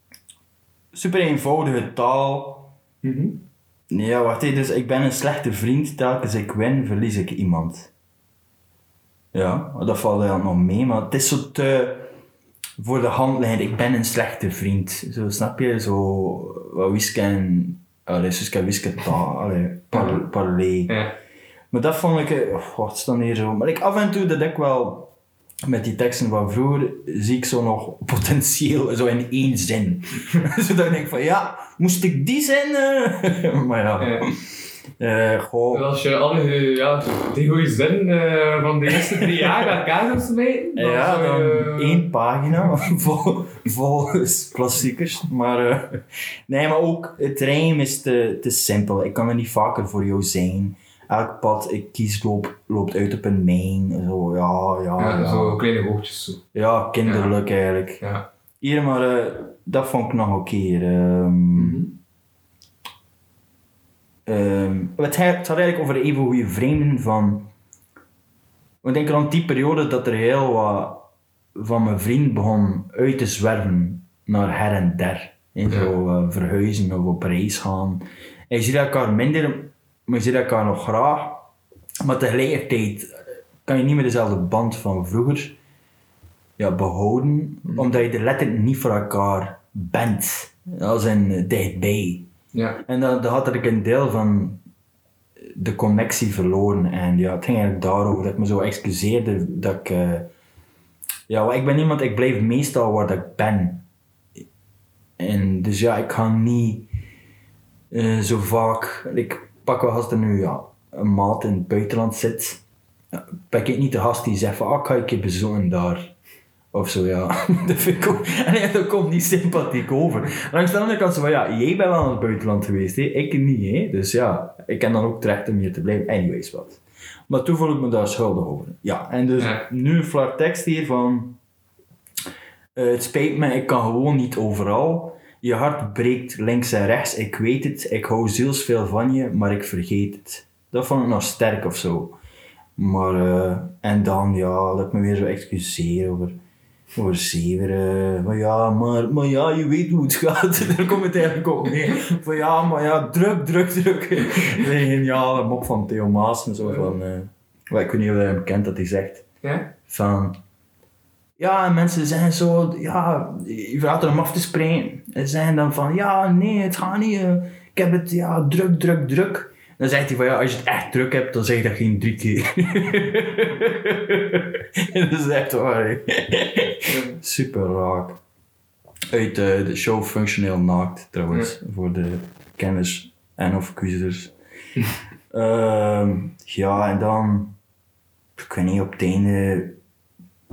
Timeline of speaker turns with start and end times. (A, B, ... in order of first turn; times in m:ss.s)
0:00.9-0:02.7 A
0:03.0-0:03.4 B
0:03.9-0:07.9 A
0:09.3-0:12.1 A
0:12.8-0:20.9 A
0:19.9-0:20.2 B
0:20.9-0:21.1 B
0:21.7-0:25.1 A
0:25.6-0:34.4 A
0:34.0-0:34.3 B
0:35.0-0:35.8 A
0:35.7-0:42.1 B
0:39.0-0:39.6 A
0:40.8-0:55.6 A
0:55.0-0:56.4 B
0:56.5-0:58.0 A
0:57.0-0:57.3 B
0:58.6-1:01.9 A
1:01.5-1:01.9 B
1:04.2-1:07.5 A
1:08.8-1:21.4 A
1:22.0-1:25.6 A
1:26.6-1:32.3 A
1:32.5-1:32.8 B
1:32.9-1:34.6 A
1:35.4-1:40.3 A
1:41.3-1:43.8 A
1:45.2-1:46.9 A
1:47.9-1:52.6 A
1:53.1-1:56.1 A
1:56.7-2:11.4 A
2:09.4-2:09.6 B
2:12.8-2:22.2 A
2:22.8-2:26.4 A
2:26.9-2:39.2 A
2:39.4-2:39.7 B
2:39.8-2:40.4 A
2:41.4-2:58.2 A
2:56.9-2:57.2 B
2:59.1-3:04.3 A
3:05.3-3:07.6 A
3:08.4-3:09.8 A